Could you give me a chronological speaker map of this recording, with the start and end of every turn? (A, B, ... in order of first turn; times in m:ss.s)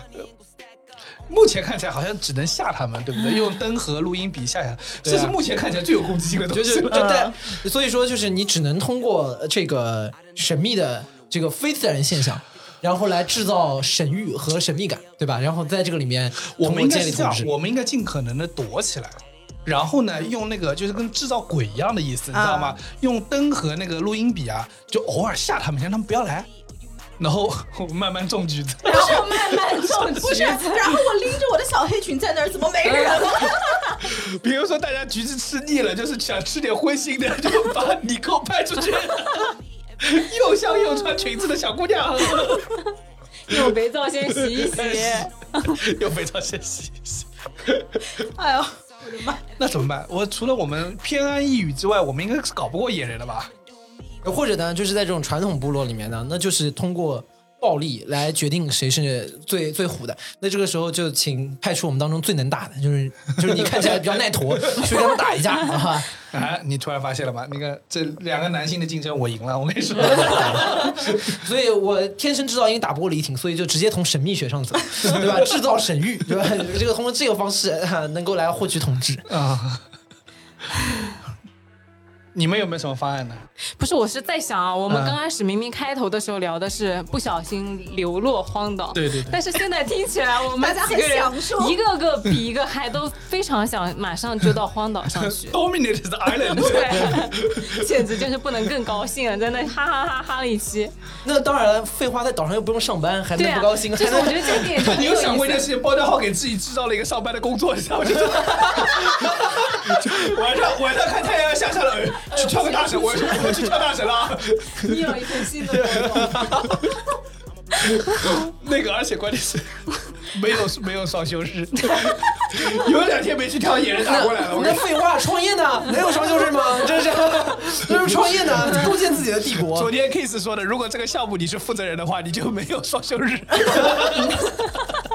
0:01.3-0:07.2 A
0:05.0-0:05.4 B
0:06.5-0:17.5 B
0:06.9-0:07.3 C
0:16.5-0:26.5 A
0:22.3-0:22.8 C
0:27.2-0:29.8 A
0:28.8-0:31.0 D
0:30.1-0:33.9 C
0:32.8-0:33.5 D
0:34.0-0:42.8 A
0:43.5-0:45.8 D
0:44.4-0:48.0 A
0:48.2-0:49.4 C
0:49.6-0:53.5 A
0:54.2-1:06.1 B
1:06.3-1:11.4 A
1:10.0-1:19.3 B
1:15.0-1:15.4 A
1:19.3-1:19.8 A
1:22.3-1:23.4 A
1:23.8-1:35.6 D
1:24.9-1:25.2 A
1:28.9-1:29.4 A
1:30.6-1:31.8 C
1:35.2-1:38.1 A
1:36.4-1:40.9 D
1:41.2-1:44.9 B
1:43.4-1:45.7 D
1:44.6-1:55.0 A
1:48.3-1:48.8 B
1:52.3-1:53.7 D
1:54.7-1:56.7 D
1:55.7-1:56.8 B
1:55.8-1:56.3 A
1:57.8-2:04.9 A
2:04.0-2:09.9 B
2:09.6-2:14.6 A